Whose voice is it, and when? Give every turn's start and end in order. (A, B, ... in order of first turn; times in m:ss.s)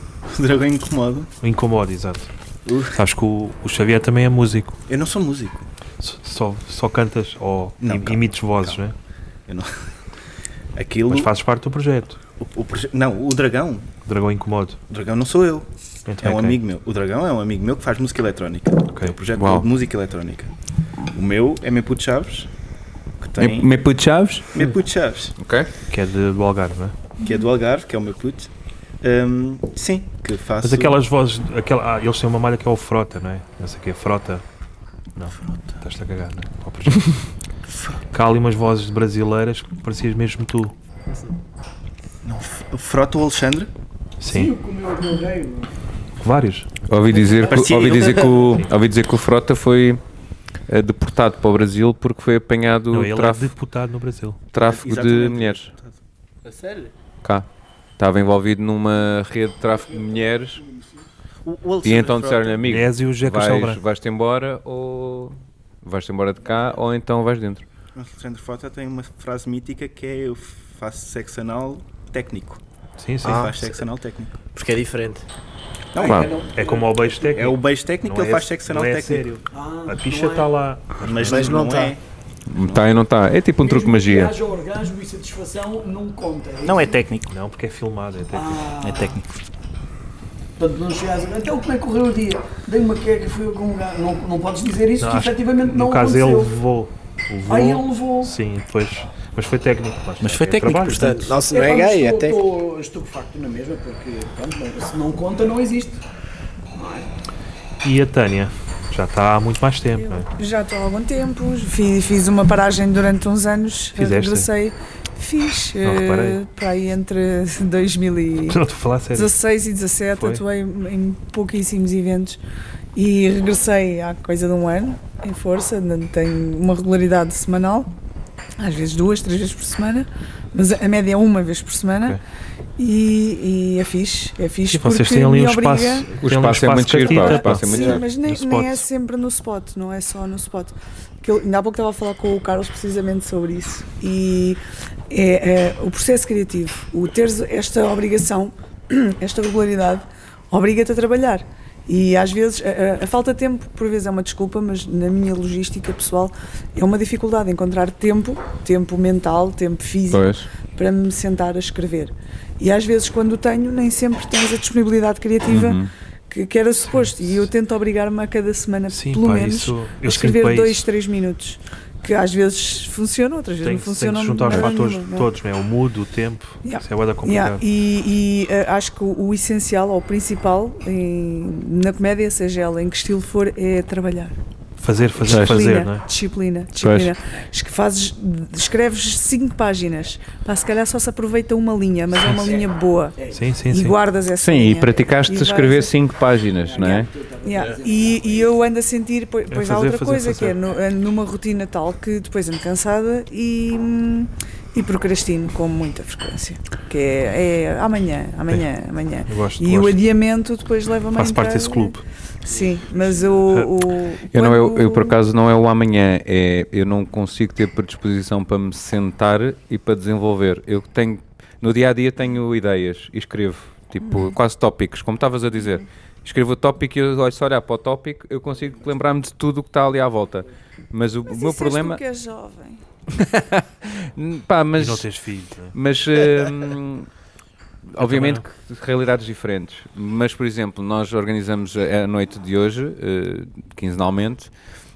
0:00.3-0:01.3 A
0:01.4-0:02.3 B
0:02.7-0:03.0 A
0:02.9-0:04.8 B
0:04.9-0:05.6 A
0:06.0-0:09.0 B
0:07.8-0:08.8 A
0:09.5-0:09.8 A
0:10.8-0:11.3 A
0:11.1-0:12.2 B
0:12.4-0:13.9 A
0:14.1-0:14.8 B
0:14.9-0:15.7 A
0:16.1-0:16.6 B
0:16.2-0:20.5 A
0:18.9-0:19.2 B
0:19.4-0:19.7 C
0:21.1-0:22.5 A
0:23.2-0:23.7 A
0:23.4-0:24.5 C
0:24.5-0:25.3 A
0:25.4-0:25.7 C
0:25.9-0:27.0 B
0:27.2-0:28.5 A
0:29.0-0:31.0 A
0:30.6-0:34.4 B
0:35.2-0:37.3 B
0:35.4-0:35.7 A
0:37.7-0:38.0 A
0:38.1-0:40.8 B
0:42.2-0:43.7 A
0:44.2-0:44.5 B
0:44.3-0:45.7 D
0:46.2-0:46.7 B
0:46.9-0:50.0 C
0:47.5-0:48.4 A
0:50.7-0:53.5 C
0:52.9-0:54.4 B
0:54.5-0:55.7 C
0:54.6-0:56.0 A
0:56.4-0:56.9 E
0:58.0-1:00.6 C
0:59.9-1:01.0 D
1:01.4-1:02.6 A
1:01.8-1:07.6 C
1:02.6-1:03.8 B
1:08.0-1:12.6 A
1:13.0-1:13.5 B
1:13.2-1:14.4 A
1:13.2-1:13.6 E
1:14.5-1:15.2 E
1:16.0-1:16.4 A
1:16.0-1:17.2 D
1:16.0-1:16.3 C
1:16.6-1:21.6 B
1:17.3-1:19.3 A
1:19.5-1:20.5 D
1:21.0-1:22.0 A
1:21.2-1:22.0 E
1:22.5-1:24.3 C
1:23.6-1:27.0 D
1:26.6-1:27.3 A
1:27.3-1:28.6 B
1:28.3-1:29.2 D
1:28.8-1:29.3 A
1:30.6-1:36.6 D
1:35.0-1:41.3 B
1:37.5-1:38.3 D
1:40.2-1:41.2 A
1:40.7-1:42.4 E
1:41.4-1:46.0 D
1:46.7-1:47.1 D
1:47.8-1:50.3 B
1:50.0-1:58.6 F
1:54.0-1:54.5 B
1:55.8-1:56.4 B
1:58.5-1:59.3 B
1:59.1-2:02.4 F
2:00.2-2:00.4 B
2:03.0-2:07.9 F
2:08.6-2:12.2 F
2:12.8-2:16.1 F
2:14.7-2:18.8 B
2:16.2-2:18.1 C
2:17.0-2:55.3 F
2:40.1-2:40.5 C
2:45.5-2:45.9 C
2:46.9-2:47.5 B
2:48.9-2:50.8 B
2:53.6-2:57.6 B
2:56.6-3:04.4 F
3:04.8-3:06.1 B
3:05.2-3:13.2 F
3:05.3-3:05.6 C
3:06.8-3:07.1 C
3:13.2-3:13.4 D
3:13.3-3:14.0 B
3:13.7-3:16.0 F
3:14.4-3:17.1 C
3:16.6-3:18.5 D
3:16.8-3:35.2 F
3:19.5-3:20.6 B
3:29.3-3:30.0 B
3:31.1-3:32.0 B
3:34.3-3:52.0 C
3:44.0-3:44.4 F
3:51.3-3:52.8 F
3:53.1-3:55.1 C
3:54.8-3:55.8 B
3:55.7-3:57.1 C
3:57.9-4:04.5 C
3:58.0-3:58.4 B